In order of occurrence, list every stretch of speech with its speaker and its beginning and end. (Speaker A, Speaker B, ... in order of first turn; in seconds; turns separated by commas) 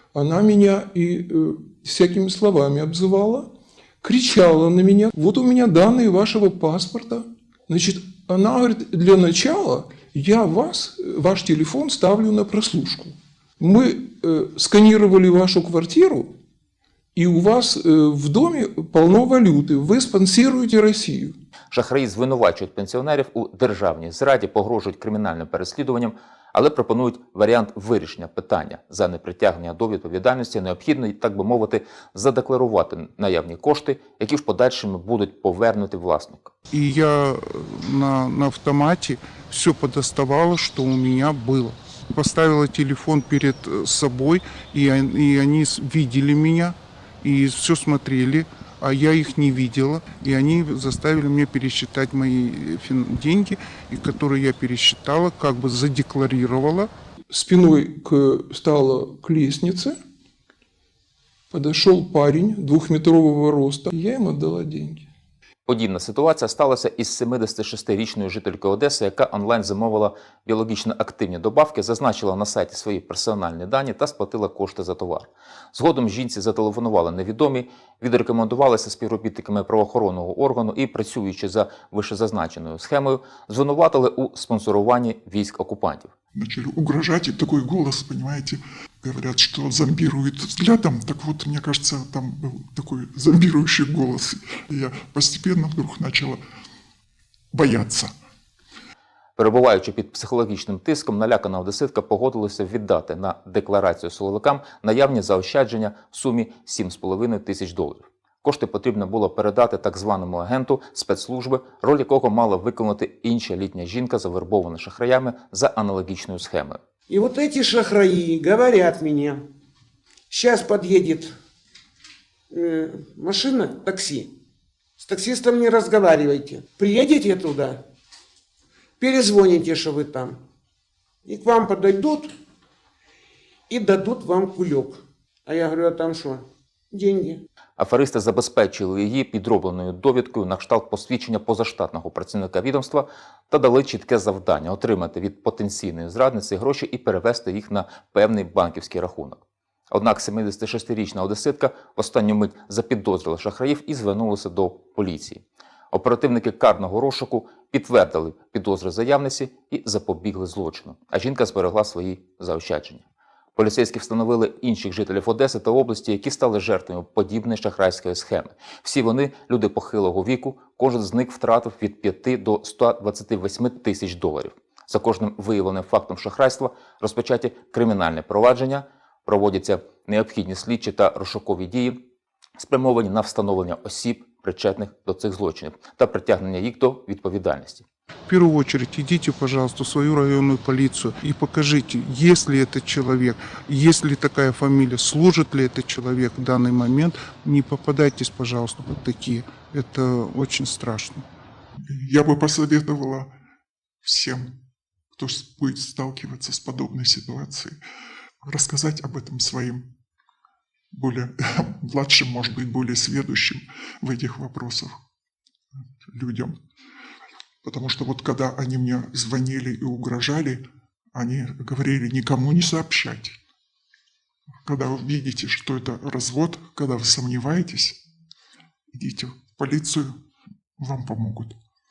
Speaker A: 0.1-3.5, Speaker A: 4.0-16.3, Speaker A: 17.1-21.3, Speaker B: 21.7-36.5, Speaker C: 36.7-56.9, Speaker A: 57.3-60.0, Speaker A: 61.5-65.1, Speaker B: 65.7-86.1, Speaker D: 86.3-96.4, Speaker D: 97.5-98.1, Speaker B: 99.4-116.8, Speaker E: 117.1-119.4, Speaker E: 120.3-121.3, Speaker E: 122.5-124.3, Speaker E: 125.0-127.8, Speaker E: 129.0-130.4, Speaker E: 131.2-132.3, Speaker E: 133.7-137.4, Speaker B: 137.8-163.0, Speaker B: 163.6-182.0, Speaker B: 182.6-187.8, Speaker C: 188.3-201.2, Speaker D: 201.9-203.3, Speaker D: 204.0-204.5, Speaker D: 205.1-207.8, Speaker D: 208.4-209.9, Speaker D: 210.9-214.9, Speaker D: 216.1-216.5, Speaker D: 217.6-220.6, Speaker D: 221.1-223.4, Speaker D: 224.7-228.0, Speaker D: 228.9-230.1, Speaker D: 230.8-231.6